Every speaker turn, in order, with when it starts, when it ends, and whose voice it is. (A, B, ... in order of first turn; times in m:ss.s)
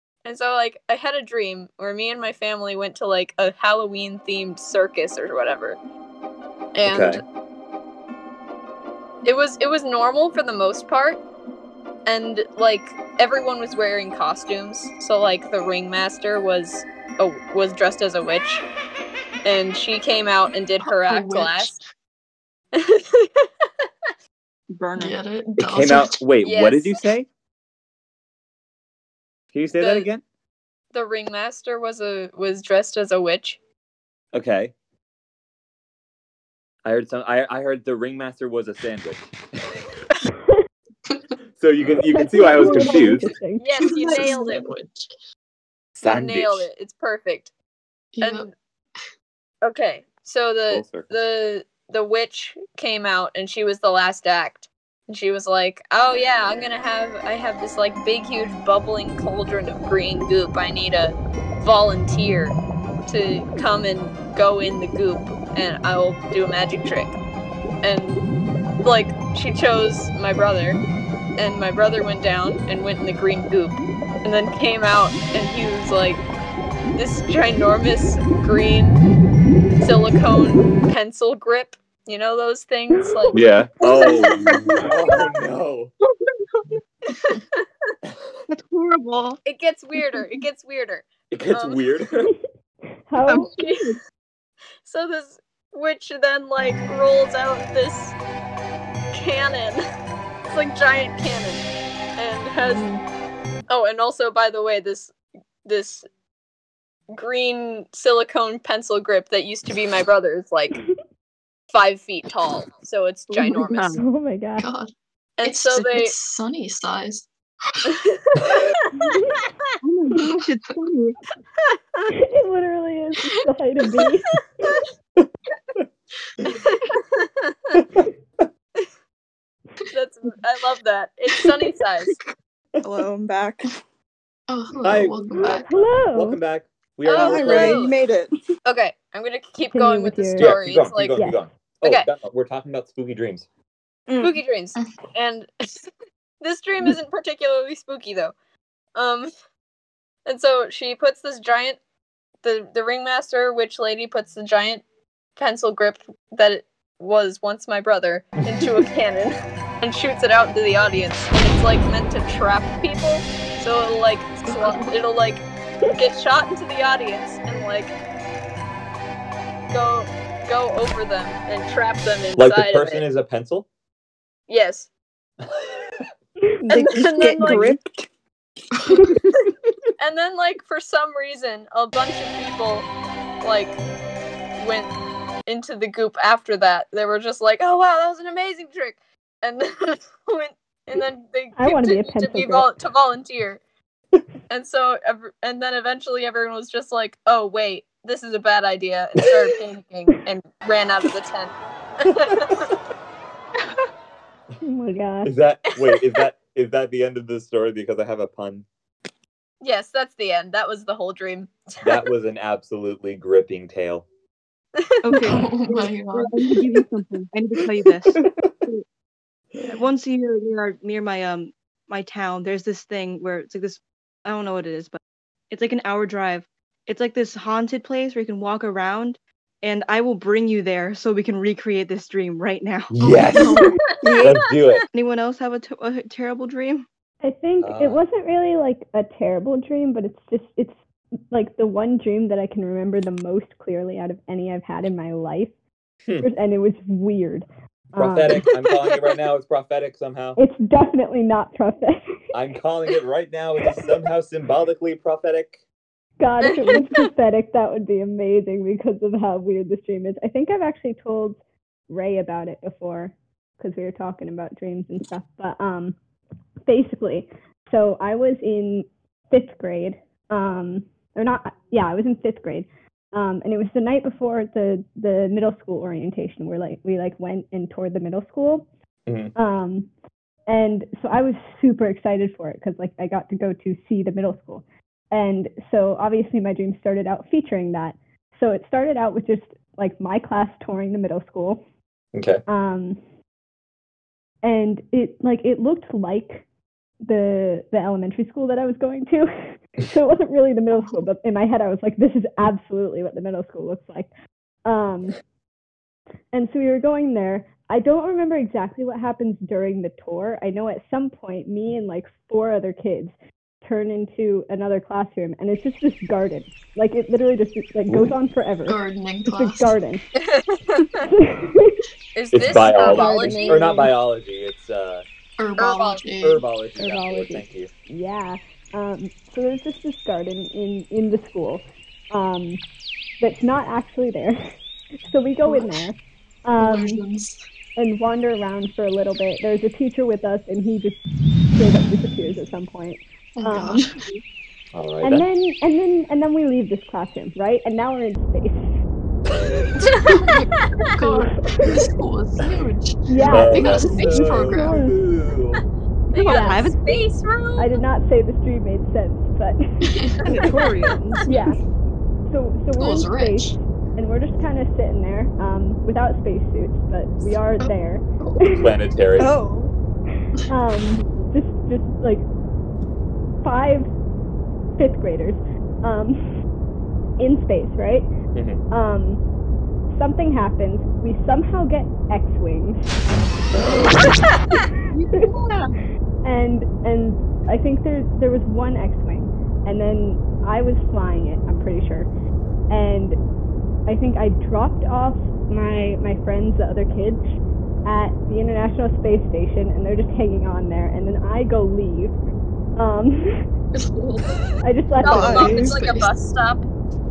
0:00.2-0:05.8 A
0:06.7-0:07.2 A
0:06.8-0:07.2 B
0:09.2-0:11.2 A
0:12.0-0:18.6 A
0:19.4-0:21.8 A
0:21.0-0:21.8 C
0:22.7-0:23.8 A
0:24.7-0:25.2 D
0:25.0-0:26.2 C
0:25.6-0:27.3 B
0:26.4-0:27.0 A
0:29.5-0:30.2 B
0:29.8-0:30.1 A
0:30.9-0:33.6 A
0:34.3-0:34.7 B
0:36.8-0:39.8 B
0:40.3-0:40.6 E
0:41.0-0:41.3 C
0:41.6-0:43.3 B
0:42.1-0:44.4 E
0:42.5-0:45.1 C
0:43.6-0:44.6 A
0:46.0-0:46.7 B
0:46.0-0:47.5 A
0:48.1-0:48.5 C
0:48.2-0:48.5 A
0:49.6-1:07.1 A
0:50.7-0:51.1 B
1:07.8-1:08.2 A
1:08.8-1:10.8 A
1:11.4-1:16.2 A
1:16.9-1:19.0 A
1:19.8-1:24.6 A
1:23.3-1:25.9 B
1:27.3-1:27.6 A
1:28.5-1:29.4 D
1:29.4-1:31.8 A
1:31.3-1:32.3 B
1:33.1-1:33.5 E
1:33.3-1:34.0 D
1:33.4-1:34.0 A
1:34.8-1:38.1 A
1:39.1-1:39.8 A
1:40.5-1:42.9 A
1:42.6-1:43.0 D
1:43.7-1:45.1 A
1:45.6-1:46.0 A
1:47.1-1:50.8 A
1:51.7-1:54.0 A
1:53.4-1:54.0 D
1:53.9-1:54.7 E
1:54.6-1:54.9 C
1:55.4-1:56.1 A
1:55.4-1:57.9 C
1:57.8-1:58.7 A
1:58.9-1:59.4 E
1:59.8-2:01.2 D
2:01.7-2:02.0 A
2:02.1-2:04.3 E
2:06.5-2:07.8 A
2:07.7-2:08.0 B
2:09.9-2:12.2 A
2:12.8-2:13.7 F
2:14.5-2:15.7 C
2:14.8-2:15.5 B
2:15.4-2:16.4 E
2:16.1-2:17.9 B
2:17.0-2:18.0 A
2:17.1-2:18.3 F
2:18.6-2:21.1 A
2:19.7-2:20.6 E
2:20.4-2:23.4 B
2:21.8-2:22.1 A
2:24.1-2:24.4 D
2:24.2-2:25.8 A
2:26.4-2:28.3 A
2:28.9-2:29.3 A
2:30.2-2:31.8 A
2:32.4-2:34.8 A
2:35.4-2:48.0 A
2:44.5-2:45.0 C
2:49.7-2:53.0 A
2:52.4-2:53.7 B
2:54.5-2:54.9 A
2:56.4-2:56.8 E
2:56.7-2:57.8 A
2:56.7-2:58.1 F
2:57.4-2:57.6 E
3:00.0-3:02.9 A
3:03.4-3:03.8 A
3:04.6-3:04.9 A
3:05.5-3:13.6 A
3:11.6-3:12.7 E
3:14.5-3:22.7 A
3:24.6-3:25.3 E
3:25.2-3:28.6 B
3:29.6-3:32.0 A
3:31.8-3:34.0 B
3:34.8-3:35.0 A
3:35.0-3:38.8 D
3:35.1-3:36.7 C
3:39.7-3:45.0 D
3:45.5-3:53.2 D
3:52.9-3:53.6 B
3:53.3-3:53.8 C
3:54.0-3:54.4 F
3:54.2-3:54.8 B
3:54.9-3:56.8 D
3:57.2-4:00.8 E
3:57.6-3:58.0 B
4:01.3-4:05.5 E
4:06.2-4:08.4 E
4:07.9-4:10.4 B
4:08.7-4:09.1 A
4:10.4-4:12.0 E
4:12.3-4:15.6 B
4:16.2-4:26.0 E
4:16.4-4:16.8 A
4:26.6-4:38.7 E
4:39.0-4:39.3 B
4:39.3-4:39.9 E
4:40.5-4:51.6 E
4:52.1-4:52.4 B
4:52.5-4:53.0 E
4:54.4-4:56.4 E
4:57.0-5:04.1 E
5:00.7-5:01.0 C
5:04.6-5:05.2 E
5:06.3-5:20.0 E
5:17.9-5:18.1 B
5:18.7-5:19.8 C
5:20.2-5:20.9 A
5:21.0-5:21.8 E
5:22.1-5:23.7 A
5:22.3-5:25.0 B
5:22.7-5:23.9 E
5:25.4-5:26.4 C
5:25.6-5:26.0 A
5:26.2-5:27.7 B
5:26.8-5:32.6 E
5:33.2-5:34.5 E
5:35.0-5:37.0 E
5:35.4-5:35.8 C
5:36.6-5:37.4 C
5:37.8-5:41.0 E
5:41.5-5:43.9 E
5:43.4-5:44.0 C
5:44.7-5:45.2 B
5:45.0-5:48.7 E
5:49.8-5:54.8 C
5:49.9-5:50.2 A
5:51.0-5:51.8 E
5:53.1-5:55.0 E
5:53.2-5:55.6 B
5:56.1-5:57.8 A
5:56.1-5:56.9 D
5:56.2-5:56.8 E
5:57.6-6:00.0 E
5:59.9-6:00.5 C
6:00.2-6:01.2 D
6:01.2-6:01.6 E
6:02.3-6:08.7 E
6:02.8-6:03.6 C
6:07.6-6:08.6 C
6:08.6-6:09.3 B
6:09.2-6:09.7 F
6:10.5-6:12.3 E
6:13.4-6:13.9 E
6:14.8-6:16.2 E
6:17.2-6:18.1 E
6:18.3-6:18.6 B
6:18.7-6:19.2 E
6:19.9-6:22.9 E
6:23.6-6:23.9 B
6:24.9-6:25.7 D
6:26.2-6:32.1 E
6:32.7-6:33.2 E
6:33.8-6:37.2 E
6:37.8-6:42.1 E
6:42.8-6:43.4 E
6:43.7-6:44.4 C
6:44.6-6:45.5 E
6:45.0-6:46.6 A
6:45.0-6:45.7 F
6:45.1-6:46.1 C